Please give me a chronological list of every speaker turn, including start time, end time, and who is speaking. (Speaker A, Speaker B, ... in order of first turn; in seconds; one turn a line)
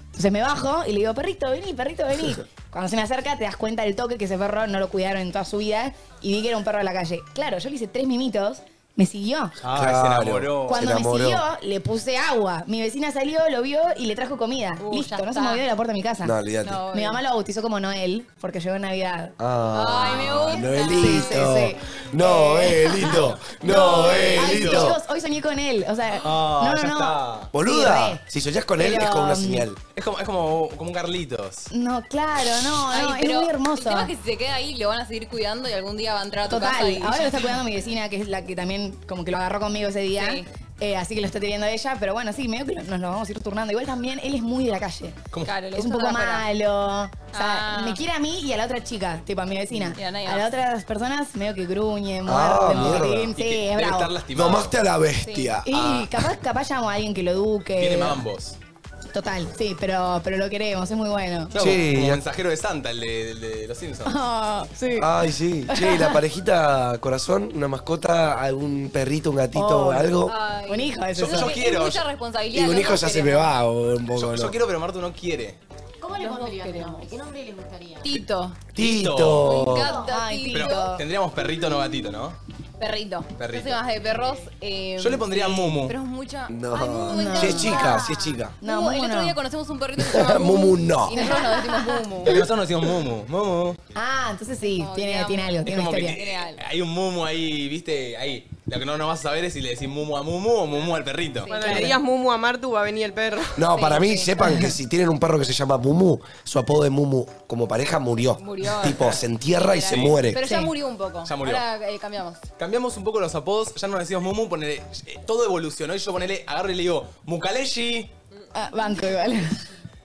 Speaker A: 0.1-9.6
Speaker B: 9.6-10.9
Speaker C: 9.7-11.4
Speaker A: 10.7-16.3
Speaker D: 14.8-15.6
Speaker C: 16.2-16.8
Speaker D: 16.6-17.2
Speaker A: 16.9-19.3
Speaker C: 19.4-25.0
Speaker D: 19.7-21.4
Speaker A: 20.9-28.2
Speaker D: 23.6-24.5
Speaker B: 24.1-24.9
Speaker B: 26.2-27.5
Speaker C: 27.5-29.8
Speaker A: 28.8-29.6
Speaker B: 29.9-31.7
Speaker A: 31.7-34.1
Speaker D: 32.9-37.4
Speaker A: 36.5-45.2
Speaker D: 40.1-40.5
Speaker D: 45.4-46.5
Speaker A: 45.7-54.1
Speaker D: 47.3-48.0
Speaker D: 49.9-50.5
Speaker C: 52.2-53.4
Speaker B: 52.6-54.7
Speaker C: 54.3-56.0
Speaker D: 55.2-55.5
Speaker A: 55.6-58.2
Speaker B: 55.7-56.1
Speaker B: 57.8-58.6
Speaker A: 59.1-61.5
Speaker B: 61.5-64.2
Speaker C: 61.5-62.2
Speaker A: 64.0-65.1
Speaker C: 65.0-70.3
Speaker A: 65.7-66.2
Speaker A: 69.5-71.6
Speaker D: 70.2-73.5
Speaker B: 71.1-72.0
Speaker C: 72.5-74.6
Speaker B: 74.1-75.6
Speaker E: 76.0-78.1
Speaker D: 76.2-77.1
Speaker D: 78.0-78.6
Speaker C: 78.7-79.9
Speaker B: 78.8-79.8
Speaker D: 79.4-80.9
Speaker E: 79.7-80.1
Speaker A: 80.0-81.0
Speaker B: 80.5-82.4
Speaker D: 82.8-88.0
Speaker B: 83.4-83.8
Speaker B: 85.0-85.9
Speaker C: 86.5-88.5
Speaker A: 87.1-88.0
Speaker E: 87.4-88.4
Speaker A: 88.6-89.4
Speaker D: 88.6-92.4
Speaker C: 90.0-91.2
Speaker A: 91.1-92.0
Speaker B: 92.2-93.8
Speaker A: 93.9-96.2
Speaker D: 94.8-96.6
Speaker B: 95.7-101.5
Speaker D: 101.4-102.0
Speaker F: 101.5-103.6
Speaker A: 101.6-101.9
Speaker C: 103.5-110.4
Speaker D: 103.7-104.3
Speaker D: 108.4-112.4
Speaker B: 109.9-110.2
Speaker A: 110.4-110.7
Speaker B: 111.2-111.6
Speaker B: 112.6-118.1
Speaker A: 118.5-119.6